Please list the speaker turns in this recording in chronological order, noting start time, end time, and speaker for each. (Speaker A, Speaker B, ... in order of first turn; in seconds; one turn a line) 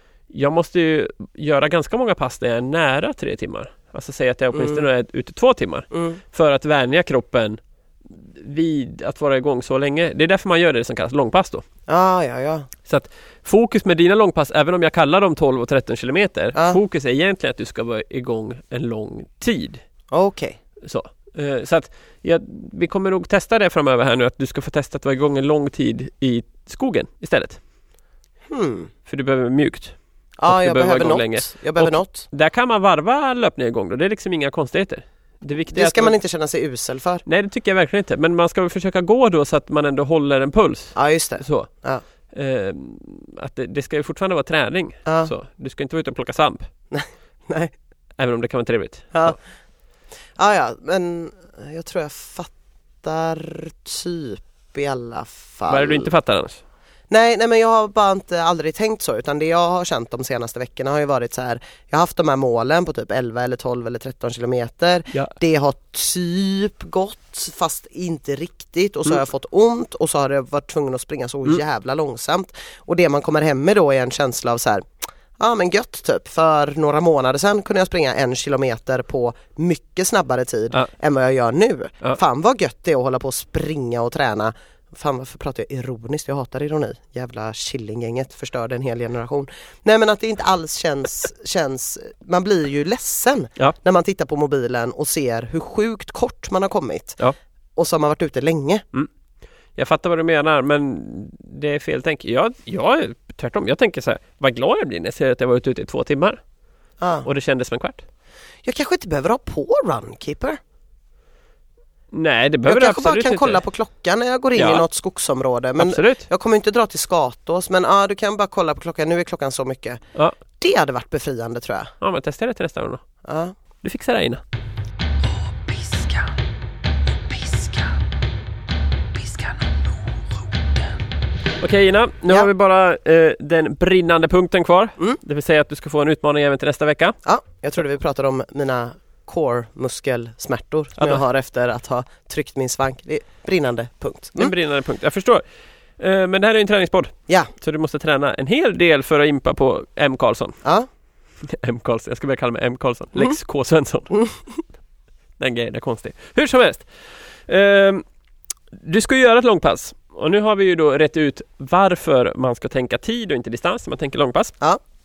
Speaker A: 0.3-11.6
Speaker B: 4.5-4.8
Speaker B: 5.9-6.2
Speaker B: 11.9-12.7
Speaker A: 12.8-19.8
Speaker B: 16.5-16.8
Speaker B: 20.1-20.6
Speaker A: 20.8-27.6
Speaker B: 28.5-28.9
Speaker A: 29.1-36.1
Speaker B: 30.4-32.3
Speaker B: 35.7-37.2
Speaker A: 37.2-41.7
Speaker B: 40.9-42.0
Speaker A: 42.3-46.7
Speaker B: 45.0-45.3
Speaker B: 46.9-47.7
Speaker A: 48.2-49.4
Speaker B: 49.1-49.4
Speaker B: 50.4-56.1
Speaker A: 55.7-56.6
Speaker B: 57.1-74.9
Speaker B: 75.4-97.2
Speaker B: 97.8-98.8
Speaker A: 99.8-106.4
Speaker B: 107.0-107.3
Speaker A: 107.2-108.0
Speaker B: 108.6-110.6
Speaker A: 112.1-113.6
Speaker B: 112.7-120.0
Speaker A: 114.5-114.8
Speaker A: 115.8-116.2
Speaker B: 120.6-121.9
Speaker A: 122.0-123.0
Speaker B: 123.2-123.5
Speaker A: 123.8-124.4
Speaker A: 131.6-137.1
Speaker B: 137.2-144.5
Speaker A: 144.3-145.4
Speaker A: 146.0-150.6
Speaker A: 151.4-154.2
Speaker A: 155.4-156.9
Speaker A: 157.5-158.0
Speaker A: 158.7-164.5